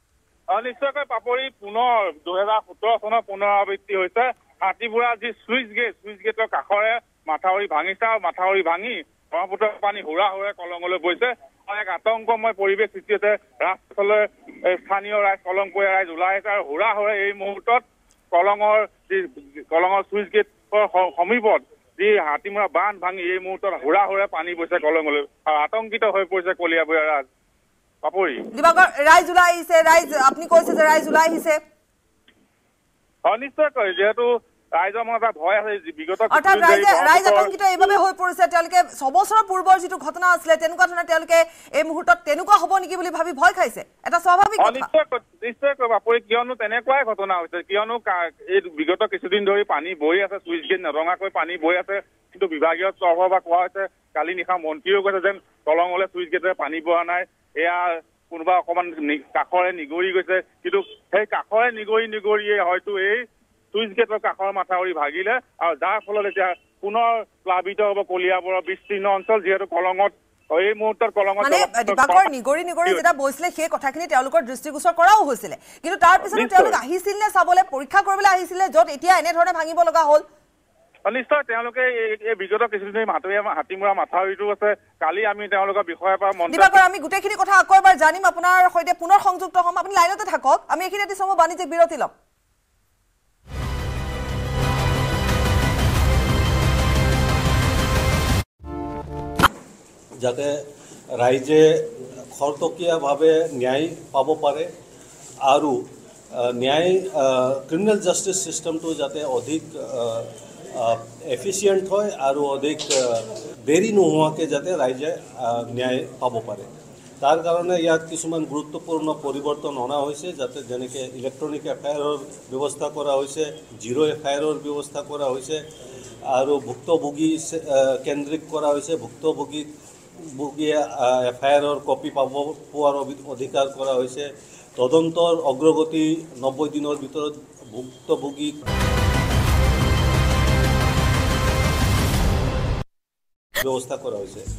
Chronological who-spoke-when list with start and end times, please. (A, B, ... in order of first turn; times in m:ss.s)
0:00.5-0:27.2 A
0:28.0-0:28.4 A
0:28.5-0:31.6 B
0:33.2-0:34.3 A
0:34.8-0:37.5 A
0:36.3-0:44.9 B
0:44.6-1:12.3 A
1:11.4-1:20.2 B
1:16.2-1:16.8 A
1:21.0-1:26.8 A
1:26.5-1:32.1 B
1:40.2-1:40.6 C
1:41.2-1:44.7 C
1:45.4-1:45.8 C
1:46.4-1:56.7 C
1:57.2-2:05.6 C
2:06.3-2:09.7 C
2:10.2-2:18.5 C
2:23.6-2:24.4 C